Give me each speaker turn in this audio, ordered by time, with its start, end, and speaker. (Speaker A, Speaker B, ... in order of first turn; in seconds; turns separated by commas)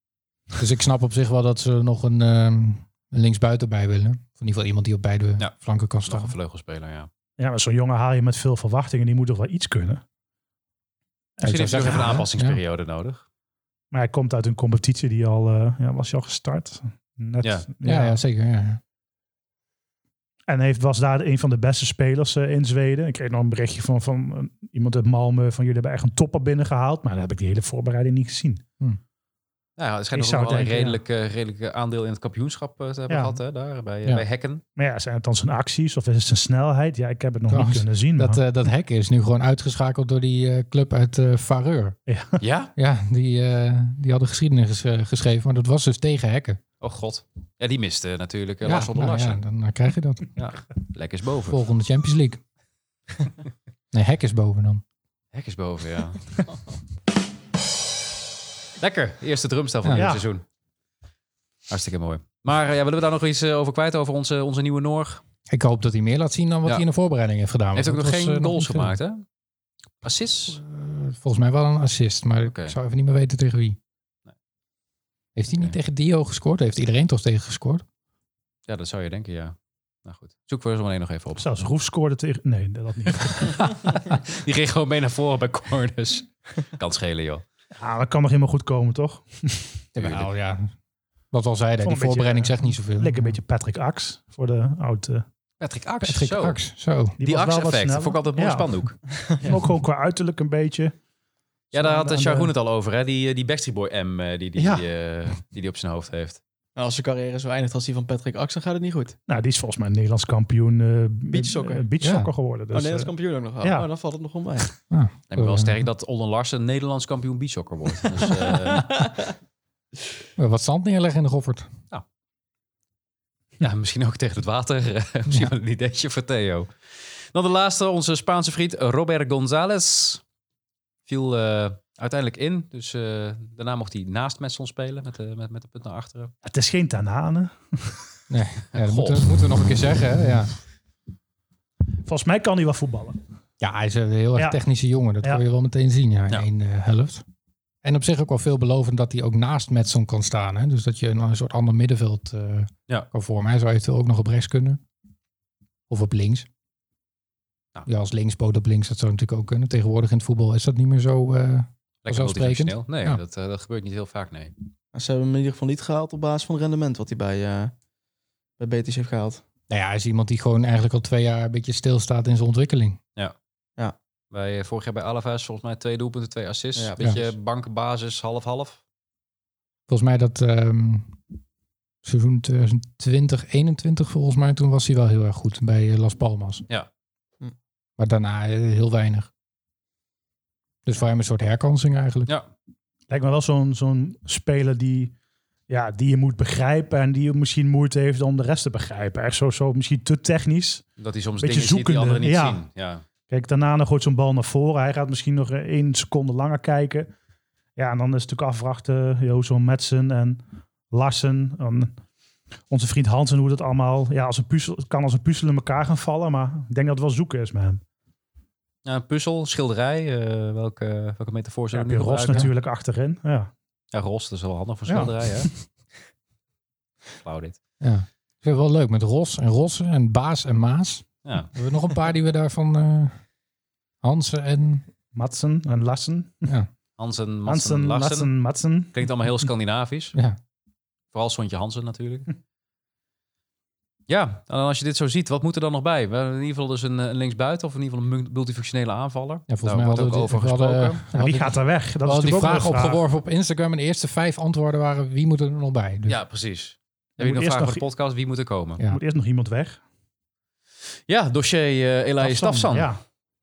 Speaker A: 0.6-6.3, Speaker B: 6.0-7.1, Speaker C: 7.4-10.0, Speaker B: 11.4-13.2, Speaker A: 11.4-12.6, Speaker C: 11.5-12.2, Speaker C: 13.9-18.2, Speaker A: 17.8-18.8, Speaker C: 20.5-28.6, Speaker B: 29.8-34.6, Speaker C: 30.1-31.0, Speaker C: 33.1-33.4, Speaker C: 34.8-38.4, Speaker A: 37.5-42.0, Speaker C: 42.1-42.4, Speaker B: 42.4-42.7, Speaker A: 42.8-46.6, Speaker B: 46.8-49.4, Speaker A: 48.6-50.3, Speaker B: 50.4-51.6, Speaker A: 51.5-52.4, Speaker A: 53.9-54.8, Speaker B: 55.3-56.3, Speaker B: 58.8-60.4, Speaker A: 59.8-60.1, Speaker C: 60.0-60.3, Speaker B: 61.7-65.2, Speaker A: 65.5-69.0, Speaker B: 67.8-69.2, Speaker B: 70.0-70.6, Speaker A: 70.5-73.8, Speaker B: 72.5-72.8, Speaker A: 75.4-77.8, Speaker B: 78.7-81.5, Speaker C: 81.4-83.8, Speaker B: 83.4-87.5, Speaker C: 87.8-89.8, Speaker A: 90.0-90.7, Speaker B: 90.0-90.3, Speaker A: 91.3-93.4, Speaker C: 91.8-95.2, Speaker B: 95.6-96.6, Speaker A: 96.0-97.2, Speaker C: 97.2-98.7, Speaker B: 97.2-99.0, Speaker C: 99.3-101.0, Speaker C: 101.7-102.5, Speaker B: 101.7-106.4, Speaker C: 104.6-104.8, Speaker D: 106.8-109.2, Speaker C: 109.3-113.9, Speaker D: 111.3-111.9, Speaker A: 112.0-112.3, Speaker D: 112.7-114.8, Speaker A: 114.9-115.8, Speaker B: 115.3-118.9, Speaker D: 118.7-119.2, Speaker A: 120.4-121.7, Speaker B: 123.6-126.7, Speaker B: 127.3-130.2, Speaker B: 131.1-136.3, Speaker C: 136.4-138.0, Speaker A: 138.3-140.6, Speaker B: 138.7-139.3, Speaker C: 142.0-143.2, Speaker A: 143.6-147.2, Speaker A: 147.8-154.8, Speaker A: 155.9-156.5, Speaker A: 157.9-163.2, Speaker B: 162.1-164.6, Speaker D: 164.9-167.7, Speaker D: 168.6-169.4, Speaker A: 169.7-173.0, Speaker B: 174.3-178.8, Speaker A: 179.9-181.2, Speaker A: 182.0-186.7, Speaker A: 188.0-189.3, Speaker A: 190.9-192.3, Speaker C: 193.1-195.1, Speaker C: 195.7-200.9, Speaker B: 201.0-203.0, Speaker C: 201.4-202.6, Speaker C: 203.3-207.1, Speaker C: 207.8-212.0, Speaker C: 212.7-217.8, Speaker B: 218.8-222.5, Speaker C: 221.7-223.5, Speaker B: 223.9-225.5, Speaker C: 224.9-225.6, Speaker B: 227.2-227.6, Speaker A: 227.8-233.2, Speaker B: 231.2-231.5, Speaker A: 234.0-234.9, Speaker C: 235.1-236.5, Speaker B: 237.0-238.3, Speaker C: 237.5-238.9, Speaker B: 238.9-240.2, Speaker B: 241.1-242.3, Speaker B: 244.1-251.0, Speaker A: 249.5-256.2, Speaker C: 251.1-253.0, Speaker B: 256.1-258.8, Speaker C: 257.2-257.9, Speaker C: 258.9-259.8, Speaker B: 261.1-262.9, Speaker C: 262.2-263.0